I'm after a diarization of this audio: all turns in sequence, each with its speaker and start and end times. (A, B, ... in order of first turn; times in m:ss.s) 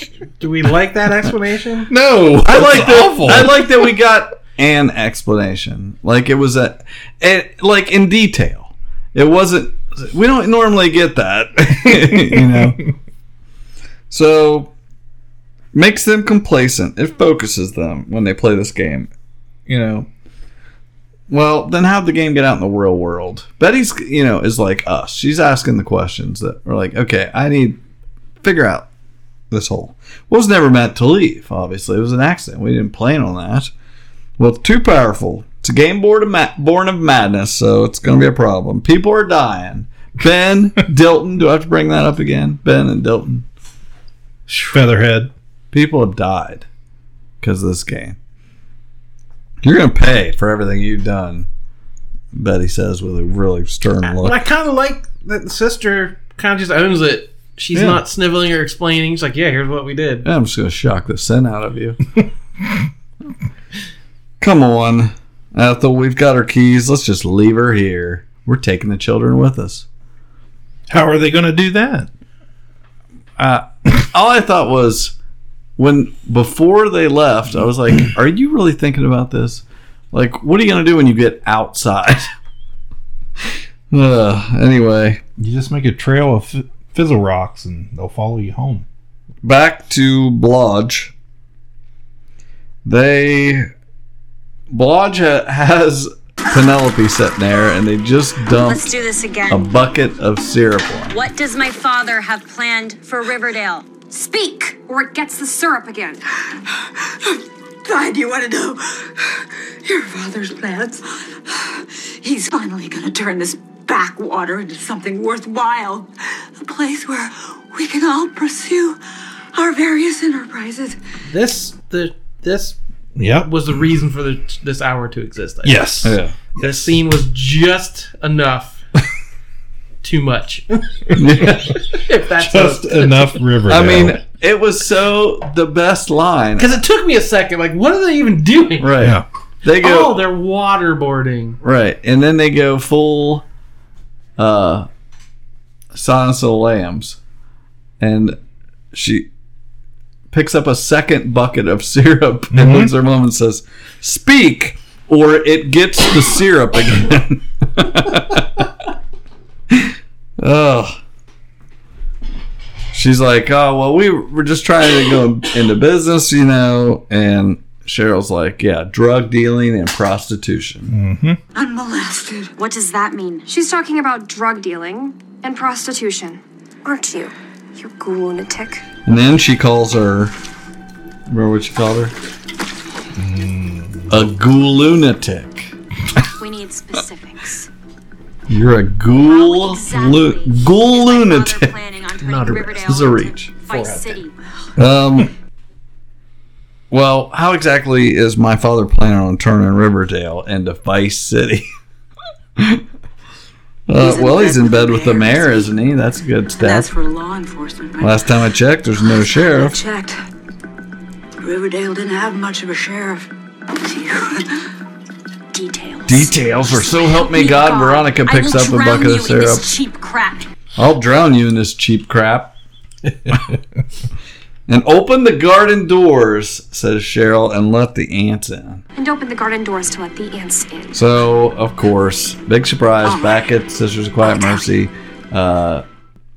0:00.4-0:01.9 A
0:01.9-0:03.8 B
0:02.4-0:12.8 C
0:12.3-0:12.6 B
0:14.1-0:14.7 C
0:15.7-0:19.1 C
0:19.7-0:20.1 C
0:21.3-0:27.8 C
0:28.4-0:28.9 C
0:29.5-0:33.7 C
0:34.4-0:43.5 C
0:44.5-0:45.3 B
0:45.7-0:46.7 C
0:47.4-0:48.2 C
0:49.6-0:51.5 C
0:52.3-0:54.4 C
0:54.0-1:00.3 A
0:57.7-0:58.0 C
1:00.2-1:02.0 C
1:04.4-1:09.9 C
1:10.9-1:12.1 B
1:13.4-1:15.2 C
1:15.8-1:22.3 C
1:23.9-1:25.2 C
1:25.4-1:28.8 B
1:29.4-1:31.1 C
1:32.8-1:33.7 C
1:34.7-1:38.8 C
1:38.5-1:39.8 D
1:39.5-1:41.2 C
1:41.1-1:46.2 D
1:47.9-1:48.8 E
1:49.9-1:51.0 E
1:52.2-1:56.0 E
1:56.7-1:57.2 E
1:57.8-1:59.0 E
1:59.6-2:00.6 E
2:01.3-2:02.8 A
2:03.2-2:03.7 B
2:03.4-2:05.9 A
2:05.6-2:06.9 B
2:06.0-2:06.4 C
2:06.6-2:08.8 A
2:10.0-2:11.1 A
2:11.2-2:11.8 C
2:12.0-2:13.4 A
2:12.4-2:14.2 B
2:13.7-2:16.8 C
2:16.6-2:19.0 A
2:18.8-2:20.2 C
2:19.8-2:21.6 A
2:21.6-2:23.4 C
2:24.4-2:24.9 C
2:25.9-2:27.2 C
2:28.0-2:28.4 C
2:28.9-2:29.3 C
2:30.3-2:38.7 C
2:32.5-2:32.9 B
2:39.7-2:41.0 C
2:42.9-2:50.9 C
2:50.9-2:51.4 B
2:52.6-2:58.8 D
2:59.0-3:00.3 C
3:01.3-3:02.2 C
3:03.2-3:04.3 B
3:04.1-3:05.7 C
3:06.4-3:07.7 D
3:08.5-3:11.7 C
3:09.1-3:14.4 D
3:12.2-3:12.8 A
3:12.6-3:13.5 C
3:13.7-3:14.2 A
3:14.8-3:15.3 C
3:16.9-3:21.7 C
3:22.6-3:22.8 C
3:23.9-3:27.0 C
3:26.7-3:28.0 E
3:28.0-3:29.8 C
3:31.5-3:33.1 E
3:35.5-3:40.5 D
3:36.1-3:39.7 C
3:40.8-3:42.5 C
3:44.7-3:48.8 C
3:49.0-3:51.0 D
3:50.9-3:55.8 C
3:53.0-3:53.5 D
3:54.2-3:54.6 D